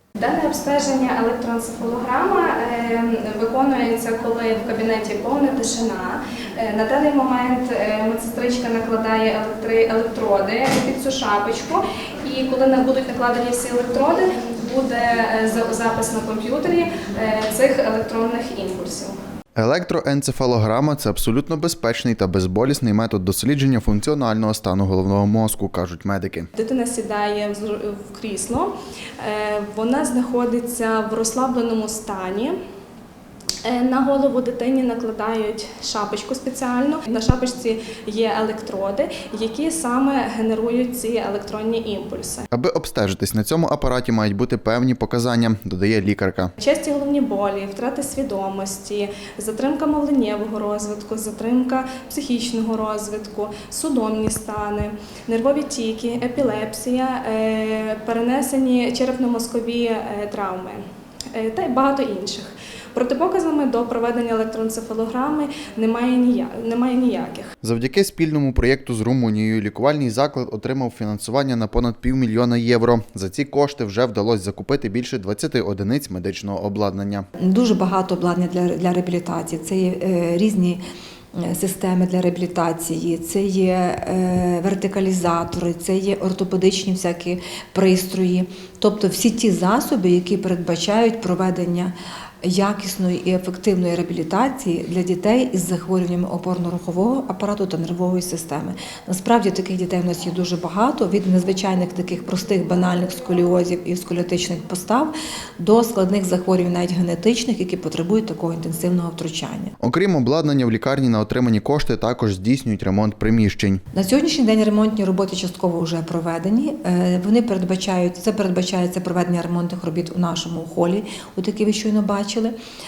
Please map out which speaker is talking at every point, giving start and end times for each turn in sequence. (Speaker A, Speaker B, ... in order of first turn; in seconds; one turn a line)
Speaker A: 0.2-19.2
Speaker B: 19.6-26.5
Speaker A: 26.5-32.5
Speaker A: 33.6-42.4
Speaker B: 42.5-46.5
Speaker A: 46.6-60.8
Speaker A: 61.3-67.5
Speaker B: 67.6-77.2
Speaker C: 77.4-80.8
Speaker C: 81.3-109.7
Speaker B: 109.8-113.8
Speaker C: 113.9-122.5